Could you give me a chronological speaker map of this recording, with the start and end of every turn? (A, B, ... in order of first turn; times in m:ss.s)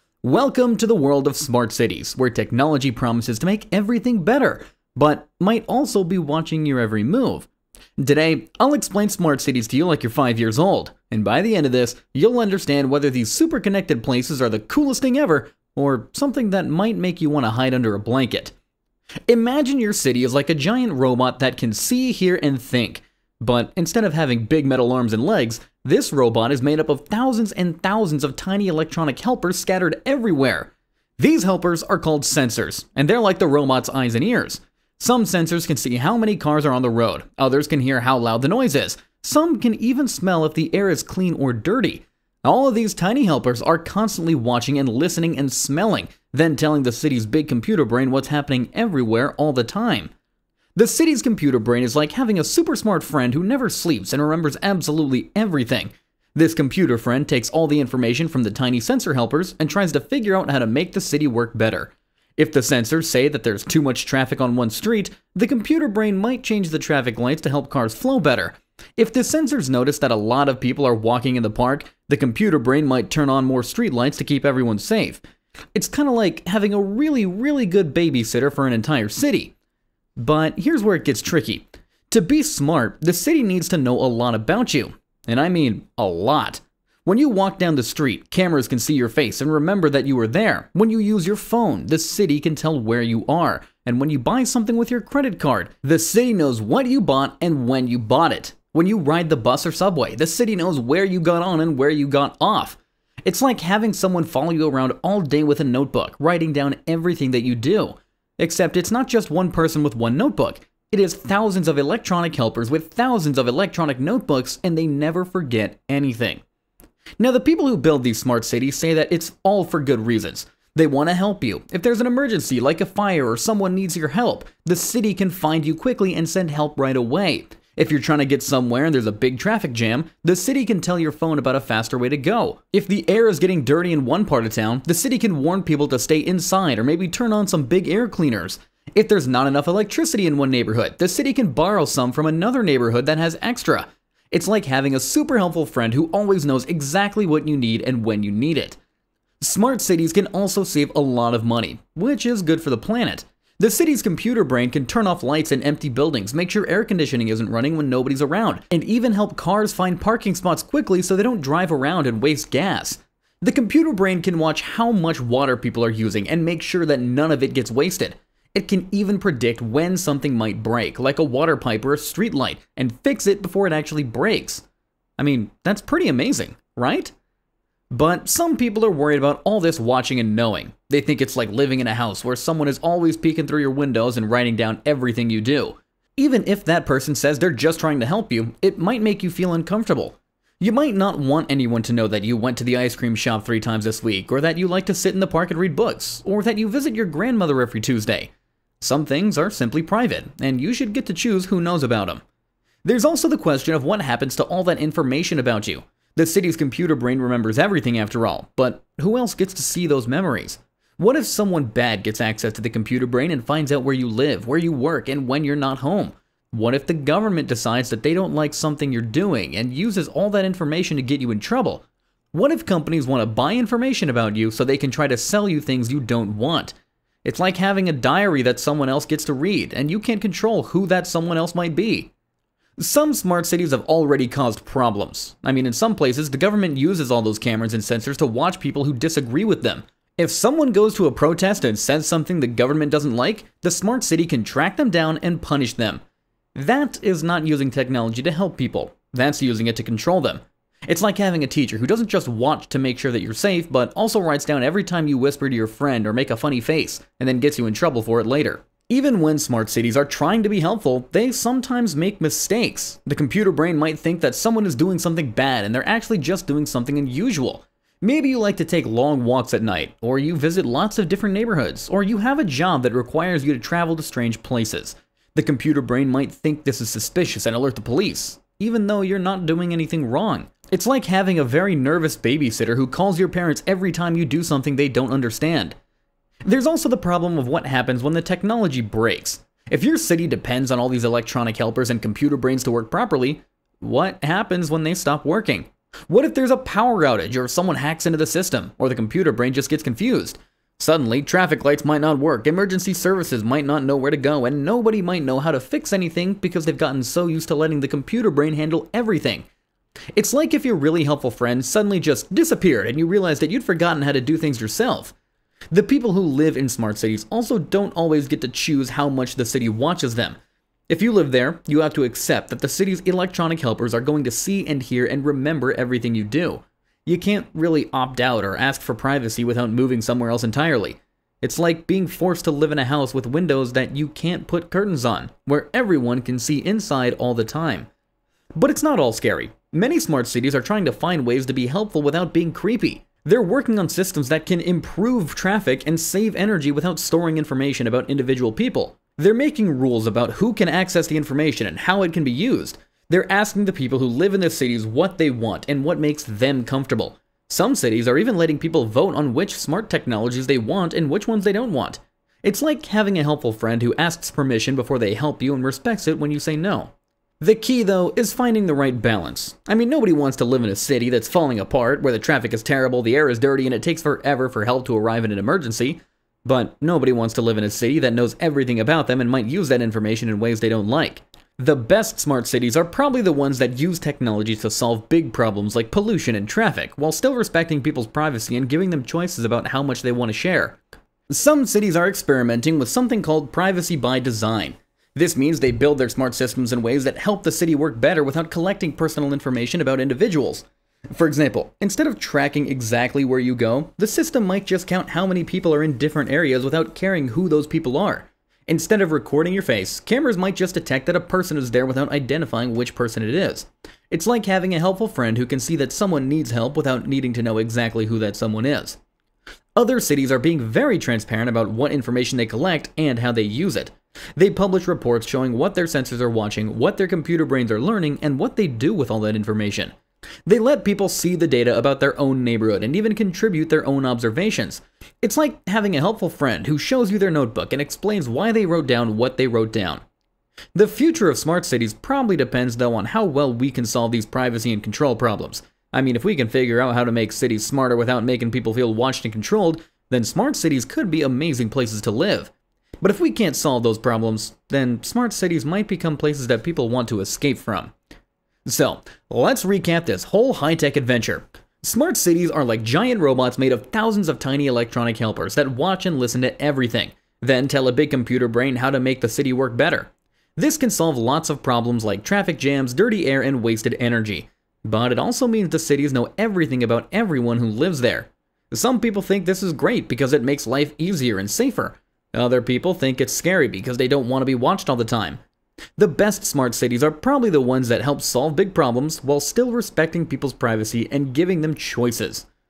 0:00.2-0:18.5 A
0:19.3-0:50.1 A
0:50.7-1:15.2 A
1:15.7-1:19.5 A
1:20.2-1:56.4 A
1:57.2-2:28.8 A
2:29.4-2:54.6 A
2:55.2-2:57.1 A
2:57.9-3:22.2 A
3:22.8-3:52.1 A
3:52.8-4:06.0 A
4:06.5-4:45.8 A
4:46.4-5:09.4 A
5:10.2-5:15.1 A
5:15.7-5:37.9 A
5:38.5-6:30.8 A
6:31.3-6:59.0 A
6:59.8-7:09.9 A
7:10.4-7:20.0 A
7:20.7-7:37.9 A
7:38.6-8:05.4 A
8:06.0-8:12.5 A